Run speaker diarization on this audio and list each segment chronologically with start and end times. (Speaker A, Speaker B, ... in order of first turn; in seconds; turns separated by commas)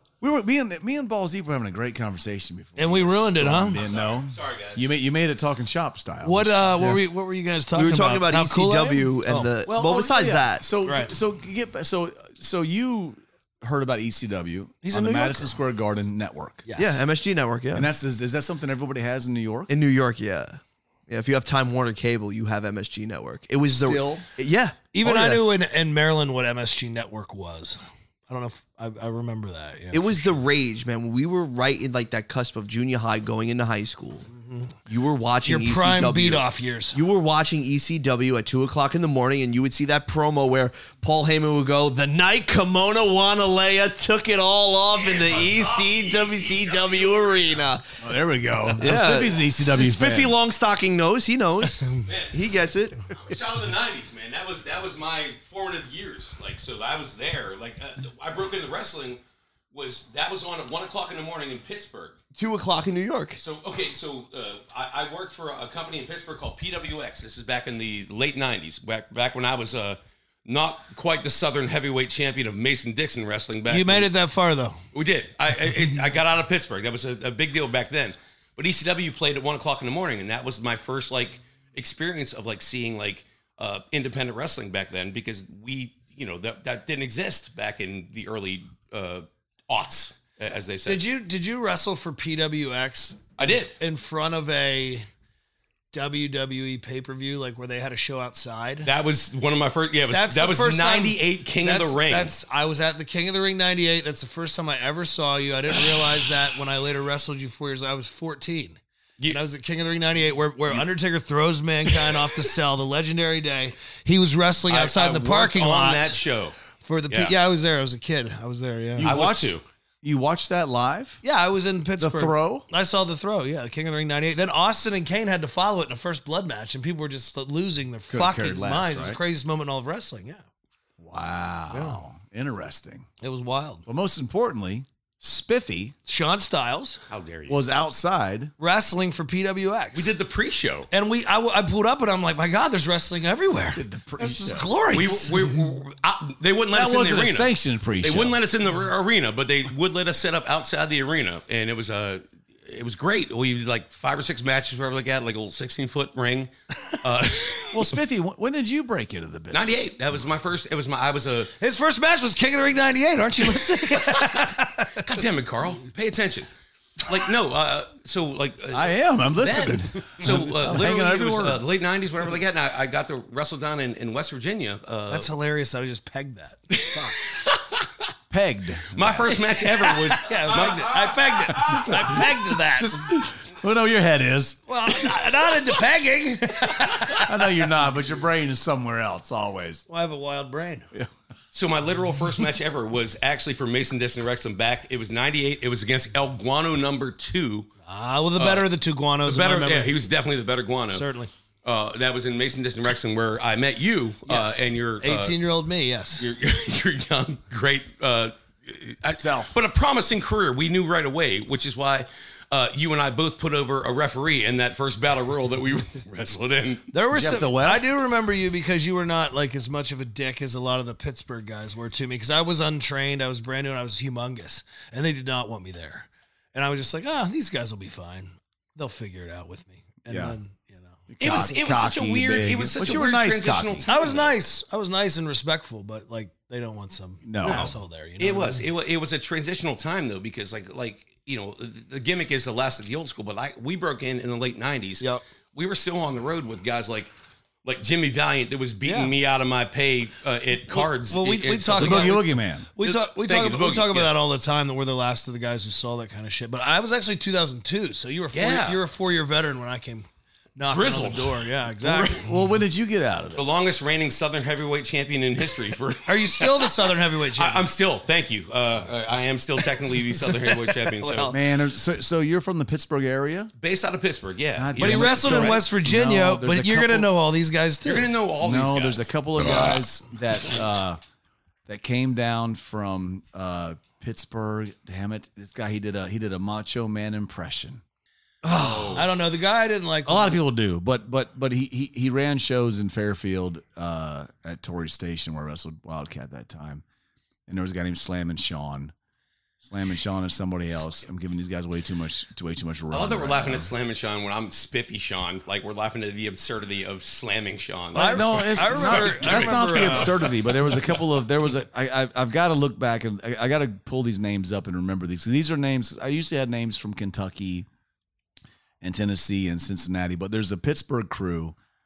Speaker A: 0.2-7.0, Speaker B: 2.8-3.8, Speaker C: 3.8-4.8, Speaker B: 6.2-9.5, Speaker D: 7.7-10.7, Speaker A: 9.7-16.6, Speaker B: 10.8-11.1, Speaker B: 14.8-15.6, Speaker B: 16.6-17.0, Speaker D: 16.8-17.9, Speaker A: 17.7-19.7, Speaker D: 19.7-25.4, Speaker A: 23.7-24.3, Speaker B: 24.9-30.4, Speaker D: 29.9-34.3, Speaker B: 34.3-34.8, Speaker D: 34.9-47.9, Speaker B: 35.4-37.0, Speaker C: 44.9-47.7, Speaker A: 48.0-50.4, Speaker D: 48.8-53.0, Speaker C: 52.0-52.6, Speaker C: 53.2-59.2, Speaker C: 59.7-62.2, Speaker D: 62.4-63.4, Speaker C: 63.4-74.1, Speaker B: 73.7-74.8, Speaker C: 74.9-91.0, Speaker B: 90.8-95.1, Speaker C: 93.4-93.7, Speaker B: 95.9-98.9, Speaker C: 98.8-102.4, Speaker B: 100.1-119.1, Speaker C: 111.9-112.2, Speaker C: 114.7-116.6, Speaker C: 117.1-117.3, Speaker A: 119.0-121.2, Speaker C: 119.0-119.7, Speaker B: 121.2-130.4, Speaker A: 122.0-122.7, Speaker A: 128.1-129.2, Speaker A: 131.0-133.1, Speaker B: 131.7-132.0, Speaker B: 133.2-133.9, Speaker A: 133.9-136.0, Speaker B: 136.1-137.0, Speaker C: 137.1-137.6, Speaker A: 137.5-138.5, Speaker B: 138.6-140.1, Speaker C: 139.9-140.9, Speaker B: 140.9-145.5, Speaker A: 143.7-144.7, Speaker C: 144.9-157.9, Speaker A: 146.7-148.4, Speaker A: 157.7-159.9, Speaker C: 159.5-161.5, Speaker B: 161.6-165.2, Speaker C: 163.6-164.5, Speaker C: 165.0-175.3, Speaker A: 168.7-171.6, Speaker B: 170.2-170.5, Speaker B: 175.1-177.2, Speaker A: 178.3-179.2, Speaker C: 178.9-181.5, Speaker B: 179.5-183.1, Speaker A: 181.5-184.7, Speaker B: 184.7-187.5, Speaker A: 187.2-189.8, Speaker B: 189.9-190.9, Speaker C: 191.5-197.7, Speaker B: 197.8-199.9, Speaker C: 198.4-198.7, Speaker C: 199.2-201.1, Speaker B: 200.9-201.3, Speaker C: 201.6-205.4, Speaker B: 204.3-206.3, Speaker C: 206.2-216.9, Speaker A: 209.2-209.6, Speaker B: 216.9-231.5, Speaker A: 217.1-217.9, Speaker A: 230.1-230.3, Speaker A: 231.1-233.9, Speaker C: 231.2-234.4, Speaker B: 233.8-238.7, Speaker A: 237.2-237.7, Speaker C: 237.4-247.1, Speaker C: 247.6-252.3, Speaker B: 248.8-249.1, Speaker B: 250.7-262.3, Speaker A: 251.8-252.7, Speaker C: 252.8-254.2, Speaker C: 258.3-258.8, Speaker C: 260.7-262.1, Speaker A: 261.9-263.4, Speaker C: 263.3-271.4, Speaker B: 266.1-267.7, Speaker B: 269.9-271.4, Speaker A: 271.3-273.5, Speaker C: 273.6-275.7, Speaker A: 274.6-277.1, Speaker B: 274.8-278.1, Speaker C: 277.8-279.7, Speaker A: 278.4-281.0, Speaker A: 281.7-287.8, Speaker C: 288.5-289.1, Speaker A: 288.5-289.1, Speaker B: 288.9-290.4, Speaker A: 290.1-296.8, Speaker A: 297.5-298.9, Speaker A: 299.6-303.7, Speaker C: 302.9-310.3, Speaker B: 307.9-310.4, Speaker A: 308.0-317.7, Speaker A: 318.8-321.6